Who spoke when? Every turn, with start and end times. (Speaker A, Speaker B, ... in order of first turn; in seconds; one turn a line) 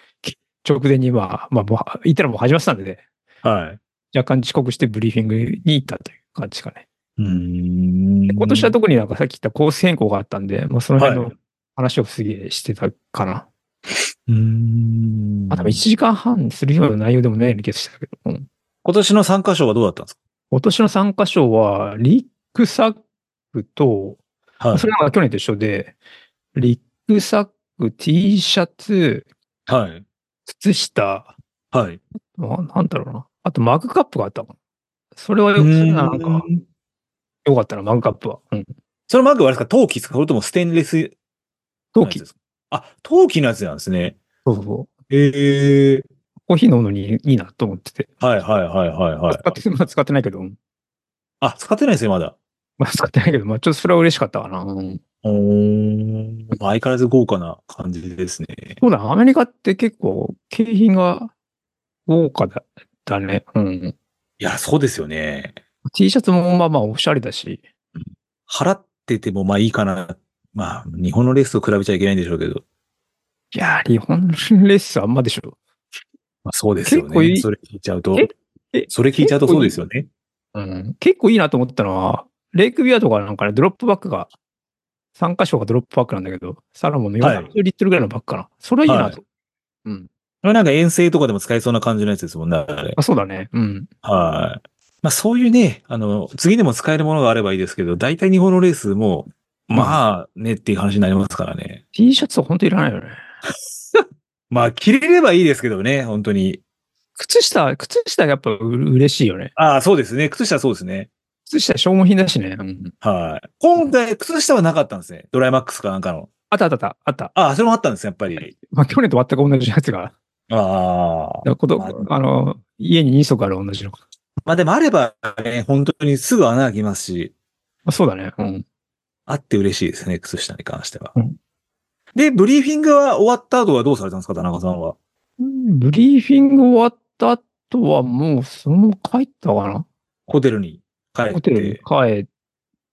Speaker A: 0.2-3.0
Speaker B: 3.4-3.8
Speaker A: 4.1-6.8
Speaker B: 7.2-8.8
Speaker A: 8.3-13.5
Speaker B: 11.0-11.3
Speaker B: 14.3-15.8
Speaker A: 15.5-18.5
Speaker B: 18.8-20.2
Speaker A: 20.5-23.0
Speaker A: 23.5-24.2
Speaker B: 24.6-24.9
Speaker A: 24.7-26.0
Speaker A: 26.6-29.3
Speaker B: 29.7-30.0
Speaker A: 30.5-31.3
Speaker B: 31.7-32.0
Speaker A: 32.3-34.5
Speaker A: 35.2-36.5
Speaker B: 35.6-36.6
Speaker A: 37.5-38.7
Speaker B: 39.1-41.1
Speaker A: 41.9-42.2
Speaker B: 42.0-44.2
Speaker A: 44.5-44.9
Speaker B: 45.1-46.1
Speaker A: 46.5-48.1
Speaker B: 48.2-49.6
Speaker A: 49.3-50.6
Speaker B: 51.4-52.4
Speaker A: 52.8-55.0
Speaker B: 55.2-58.8
Speaker A: 58.8-61.3
Speaker A: 62.1-64.0
Speaker B: 64.4-65.6
Speaker A: 65.9-67.6
Speaker B: 68.0-72.6
Speaker A: 73.5-75.6
Speaker B: 76.5-78.3
Speaker A: 76.8-77.5
Speaker A: 78.2-79.8
Speaker B: 78.9-80.1
Speaker A: 80.5-84.3
Speaker A: 85.2-89.2
Speaker B: 87.2-87.5
Speaker B: 88.9-89.2
Speaker B: 90.4-93.0
Speaker A: 93.0-93.9
Speaker B: 94.0-101.8
Speaker A: 99.7-100.0
Speaker A: 101.9-103.2
Speaker B: 104.5-106.6
Speaker A: 107.2-109.5
Speaker B: 109.6-111.1
Speaker A: 111.5-112.9
Speaker B: 113.0-116.3
Speaker A: 116.5-117.3
Speaker B: 117.3-118.5
Speaker A: 118.4-120.1
Speaker B: 120.5-122.1
Speaker A: 121.5-124.0
Speaker B: 124.5-127.3
Speaker A: 127.9-128.7
Speaker B: 129.3-131.2
Speaker B: 132.2-135.0
Speaker A: 135.4-139.9
Speaker B: 140.3-141.8
Speaker A: 141.3-142.3